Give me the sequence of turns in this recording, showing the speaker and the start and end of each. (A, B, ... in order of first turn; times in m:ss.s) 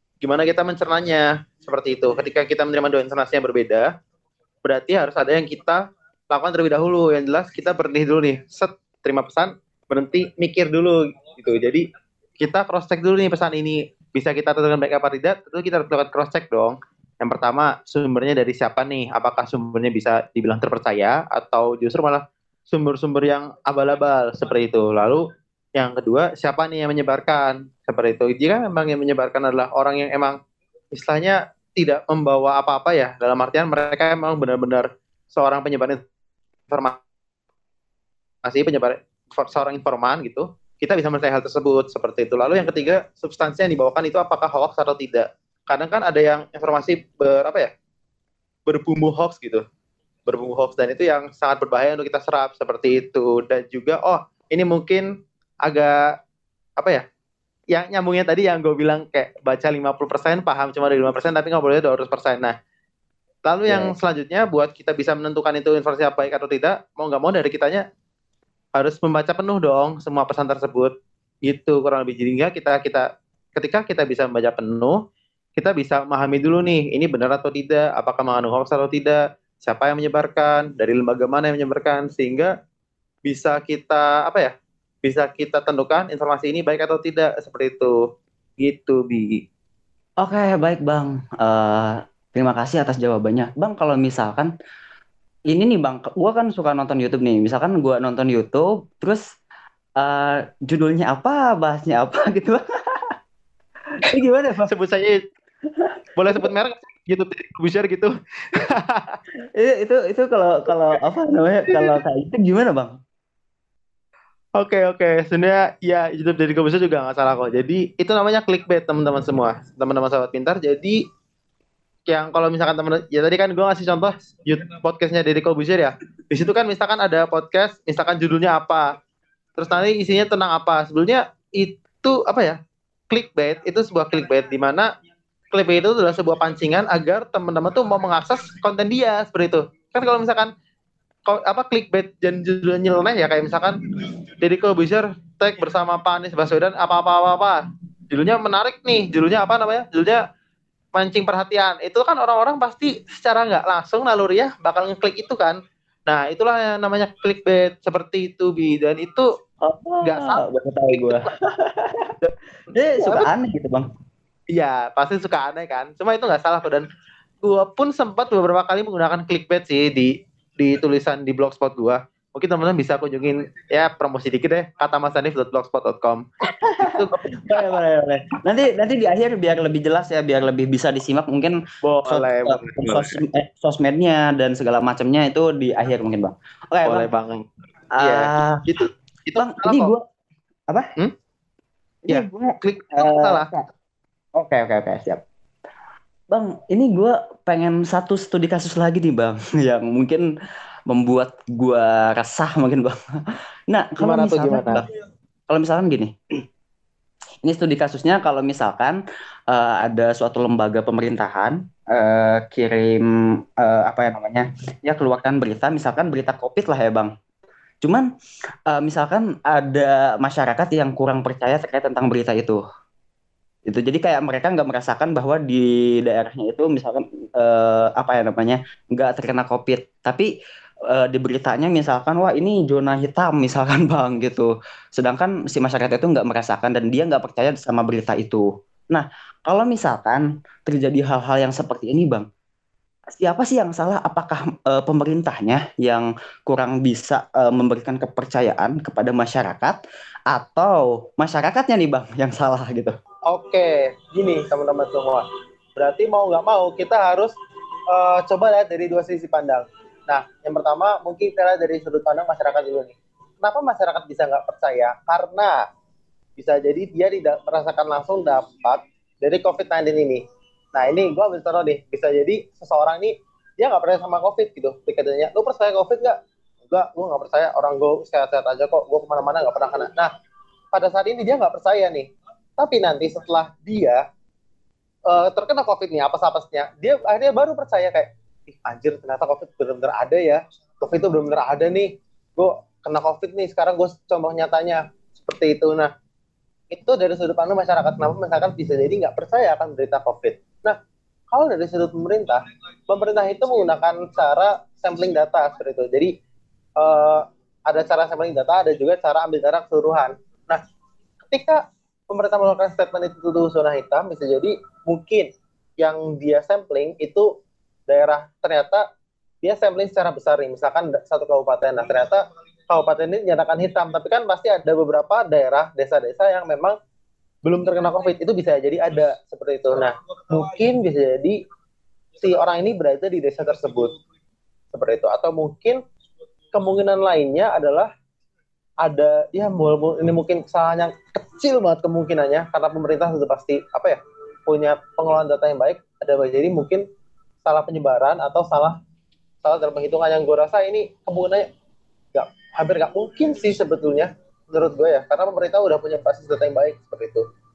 0:00.2-0:03.9 A
0:04.6-0:11.8 A
0:12.4-0:25.2 A
0:25.8-0:30.4 A
0:30.9-0:36.0 A
0:36.7-0:37.0 A
0:38.4-0:47.7 A
0:48.7-0:49.6 A
0:50.2-0:55.1 A
0:55.6-0:56.0 A
0:57.7-1:02.5 A
1:03.4-1:07.8 A
1:03.7-1:03.9 B
1:08.8-1:10.9 A
1:11.5-1:15.0 A
1:15.6-1:22.5 A
1:23.2-1:24.5 A
1:25.0-1:28.0 A
1:28.6-1:29.4 A
1:30.2-1:34.5 B
1:35.5-1:39.2 B
1:40.0-1:43.1 B
1:44.0-1:44.7 B
1:44.7-1:45.2 A
1:45.8-1:46.5 B
1:46.2-1:49.2 A
1:49.6-1:52.9 B
1:51.7-1:52.0 A
1:54.6-2:01.0 A
2:02.1-2:08.9 A
2:09.6-2:12.6 A
2:13.1-2:14.9 A
2:15.5-2:20.5 A
2:21.2-2:23.8 A
2:24.4-2:30.2 A
2:30.9-2:39.3 A
2:39.6-2:42.1 B
2:40.0-2:41.2 A
2:42.7-2:43.9 B
2:43.0-2:43.3 A
2:44.5-2:46.8 A
2:47.4-2:56.2 A
2:56.6-3:01.6 B
2:56.8-2:57.8 A
3:01.8-3:03.2 A
3:02.1-3:07.1 B
3:06.8-3:07.4 A
3:08.0-3:08.6 B
3:08.0-3:09.9 A
3:09.4-3:10.0 B
3:12.1-3:13.6 B
3:12.1-3:13.4 A
3:14.4-3:15.2 B
3:16.3-3:20.2 B
3:20.9-3:23.0 B
3:23.7-3:24.8 B
3:24.0-3:24.8 A
3:25.5-3:26.1 B
3:27.4-3:33.0 B
3:33.6-3:37.1 B
3:38.7-3:42.6 B
3:43.7-3:50.3 B
3:50.9-4:02.3 B
4:03.1-4:09.8 B
4:10.3-4:12.9 B
4:13.3-4:15.2 A
4:15.8-4:17.3 A
4:17.9-4:25.6 A
4:26.4-4:30.2 A
4:30.7-4:40.1 A
4:40.7-4:44.0 A
4:45.1-4:55.9 A
4:56.7-5:00.8 A
5:01.3-5:06.1 A
5:06.8-5:10.6 A
5:11.3-5:15.3 A
5:15.8-5:17.3 A
5:17.9-5:18.8 A
5:19.4-5:26.7 A
5:27.4-5:31.4 A
5:32.2-5:33.9 A
5:34.7-5:35.8 A
5:36.5-5:37.9 A
5:38.8-5:46.8 A
5:47.4-5:48.7 A
5:49.4-5:51.4 A
5:52.1-5:57.2 A